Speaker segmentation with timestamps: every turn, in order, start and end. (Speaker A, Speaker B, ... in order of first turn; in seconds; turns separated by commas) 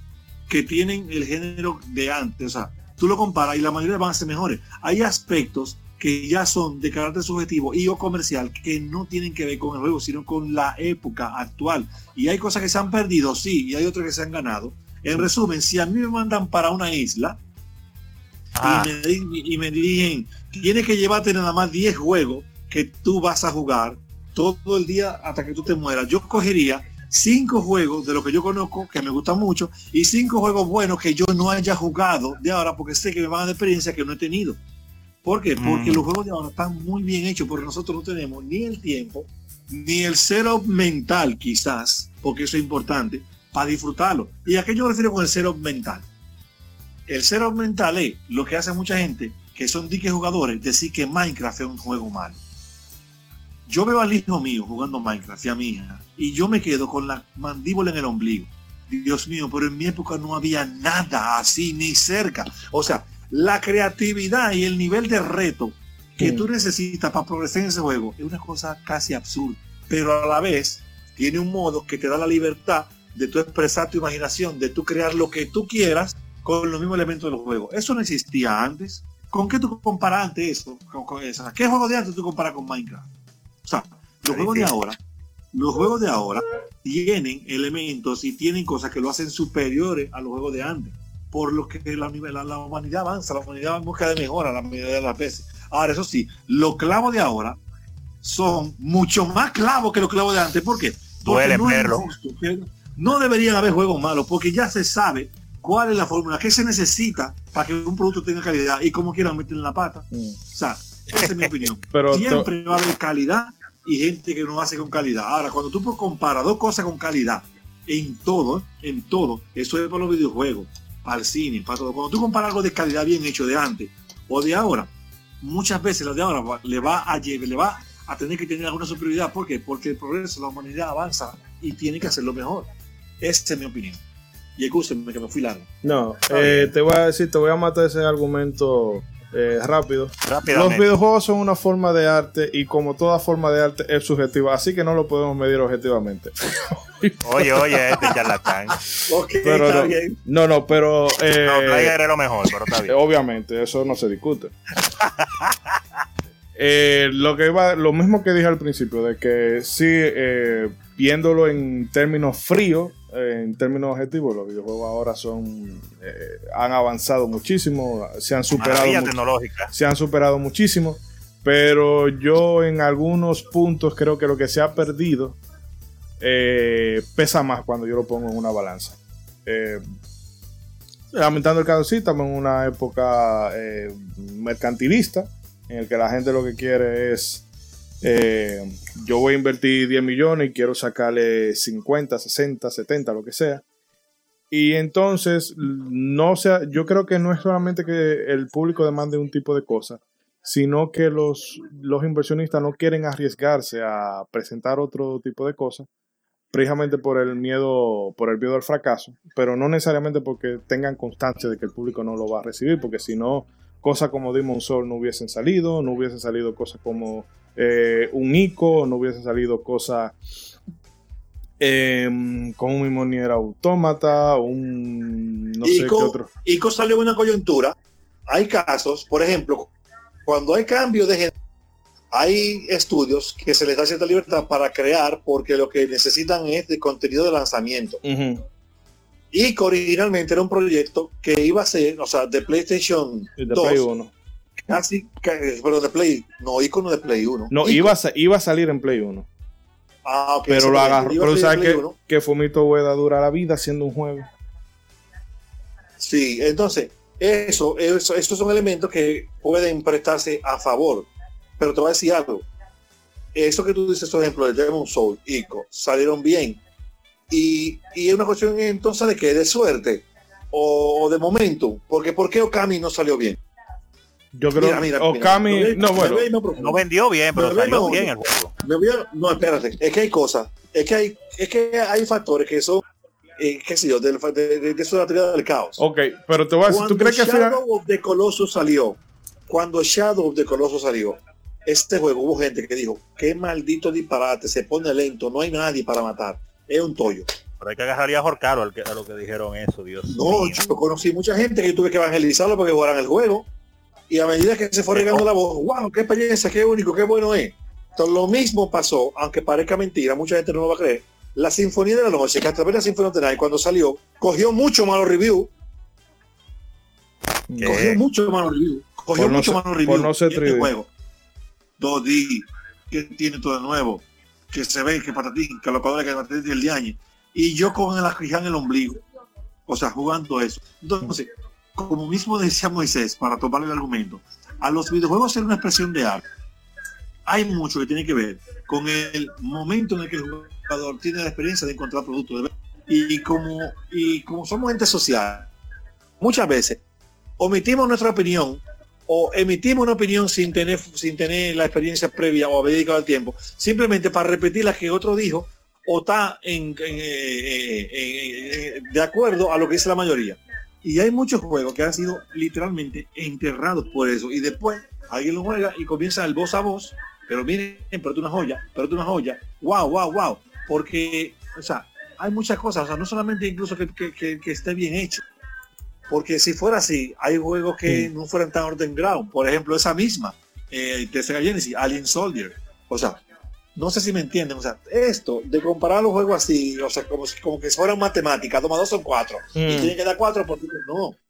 Speaker A: 0.5-17.4, Speaker A: 18.6-34.6, Speaker B: 18.6-18.9, Speaker A: 35.2-46.0, Speaker B: 35.6-36.1, Speaker A: 47.1-52.4, Speaker A: 53.7-83.1, Speaker C: 66.2-66.5, Speaker A: 83.7-85.0, Speaker B: 84.3-84.7, Speaker A: 85.5-97.6, Speaker A: 98.2-132.7, Speaker B: 101.2-102.1, Speaker C: 110.1-110.4, Speaker B: 111.2-111.7, Speaker C: 111.9-112.5, Speaker A: 133.2-134.0, Speaker A: 134.6-135.7, Speaker C: 135.8-148.2, Speaker B: 136.3-136.7, Speaker B: 140.3-140.9, Speaker B: 147.2-148.8, Speaker A: 149.0-150.2, Speaker C: 149.4-151.9, Speaker B: 151.4-152.9, Speaker C: 152.8-154.5, Speaker B: 155.0-155.5, Speaker C: 156.6-169.1, Speaker B: 168.6-169.7, Speaker C: 169.7-175.4, Speaker C: 176.2-179.8, Speaker C: 181.1-187.4, Speaker C: 188.0-193.6, Speaker C: 194.5-205.9, Speaker C: 206.5-220.2, Speaker C: 221.6-226.3, Speaker A: 225.6-227.8, Speaker A: 228.3-229.7, Speaker A: 230.3-231.3, Speaker A: 232.1-238.0, Speaker C: 238.0-238.4, Speaker A: 239.3-243.8, Speaker C: 243.4-244.1, Speaker A: 244.7-247.9, Speaker C: 247.5-249.3, Speaker A: 250.1-251.9, Speaker C: 250.5-254.3, Speaker A: 256.0-262.5, Speaker A: 263.3-266.6, Speaker A: 267.3-273.4, Speaker C: 274.3-276.3, Speaker A: 274.6-276.8, Speaker B: 276.6-278.5, Speaker A: 277.4-282.9, Speaker A: 283.4-285.8, Speaker C: 285.8-287.6, Speaker A: 286.6-297.3, Speaker B: 297.6-300.8, Speaker A: 300.1-303.5, Speaker A: 304.1-315.5, Speaker B: 304.9-305.3, Speaker C: 317.5-317.8, Speaker B: 317.6-318.0, Speaker A: 317.6-320.9, Speaker C: 319.1-320.7, Speaker A: 321.8-329.0, Speaker A: 329.7-336.2, Speaker A: 337.3-345.5, Speaker A: 346.2-346.8, Speaker A: 347.4-375.2, Speaker A: 376.1-383.2, Speaker C: 377.9-378.1, Speaker A: 383.8-391.2, Speaker C: 389.6-389.9